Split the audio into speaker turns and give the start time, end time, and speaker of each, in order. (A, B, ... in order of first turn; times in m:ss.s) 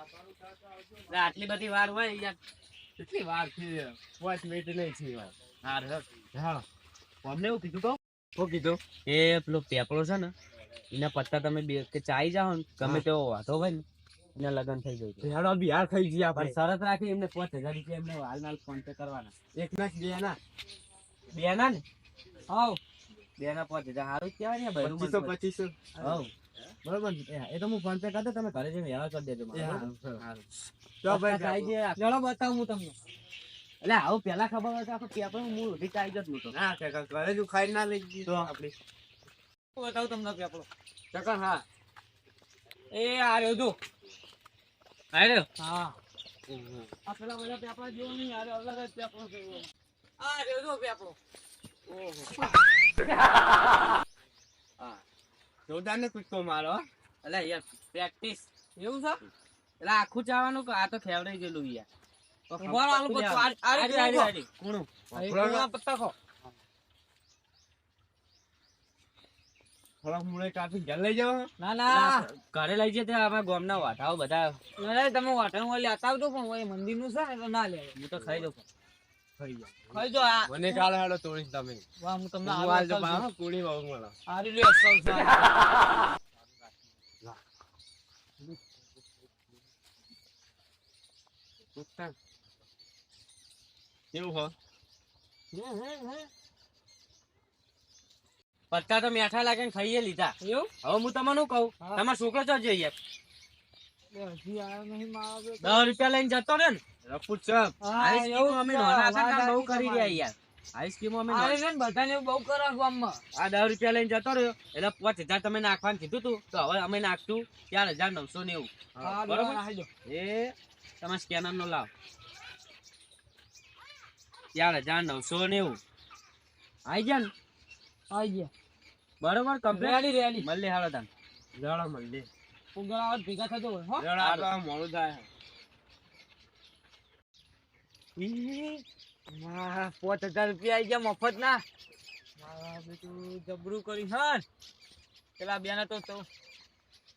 0:01.1-0:02.4 A
0:03.0-0:05.7 B
0:05.7-0:06.6 A
0:07.2-0:08.0 A
0:08.4-0:08.8 B
0:08.9-0:10.3 A
0:10.9-0:15.3 A
0:15.2-0:16.6 B
0:16.3-0:19.3 A
0:19.5-0:20.4 B
0:21.3-0:21.8 A
0:22.5-0:22.8 C
0:23.4-0:25.4 A
0:24.8-0:25.7 B
0:25.9-0:26.2 C
0:26.0-0:26.3 A
0:26.8-0:30.4 A
0:29.5-0:30.2 B
0:31.0-0:31.7 B
0:31.0-0:32.0 A
0:32.0-0:33.0 C
0:33.8-0:36.5 A
0:36.5-0:38.7 B
0:39.7-0:40.7 C
0:41.1-0:41.6 A
0:42.9-0:43.8 C
0:45.1-0:45.5 A
0:45.6-0:46.0 C
0:47.0-0:49.6 C
0:50.2-0:51.2 C
0:51.9-0:52.4 B
0:55.7-0:56.8 B
0:57.2-0:58.5 A
0:58.8-0:59.2 C
0:59.8-1:01.9 A
1:02.5-1:04.9 A
1:02.6-1:04.3 C
1:05.1-1:05.7 B
1:05.1-1:06.1 C
1:10.0-1:11.5 B
1:11.6-1:12.3 C
1:11.9-1:14.6 A
1:14.8-1:18.0 C
1:18.0-1:18.6 A
1:19.4-1:21.8 B
1:19.9-1:20.9 C
1:22.0-1:23.3 C
1:22.4-1:24.1 B
1:24.3-1:25.5 C
1:31.8-1:32.1 B
1:34.1-1:34.5 B
1:35.5-1:36.3 C
1:38.7-1:43.0 A
1:40.4-1:40.7 C
1:44.1-1:46.0 C
1:45.6-1:46.8 A
1:47.0-1:47.7 B
1:47.8-1:50.2 C
1:48.0-1:51.6 A
1:51.3-1:53.2 C
1:53.3-2:01.9 A
1:59.0-1:59.9 C
2:04.5-2:05.8 A
2:06.8-2:07.3 A
2:08.1-2:08.5 C
2:09.2-2:11.1 A
2:09.7-2:10.4 C
2:11.6-2:12.3 B
2:12.7-2:14.1 C
2:14.0-2:15.3 B
2:14.1-2:14.5 A
2:18.2-2:18.8 A
2:19.3-2:21.6 C
2:22.4-2:24.4 C
2:25.4-2:26.2 C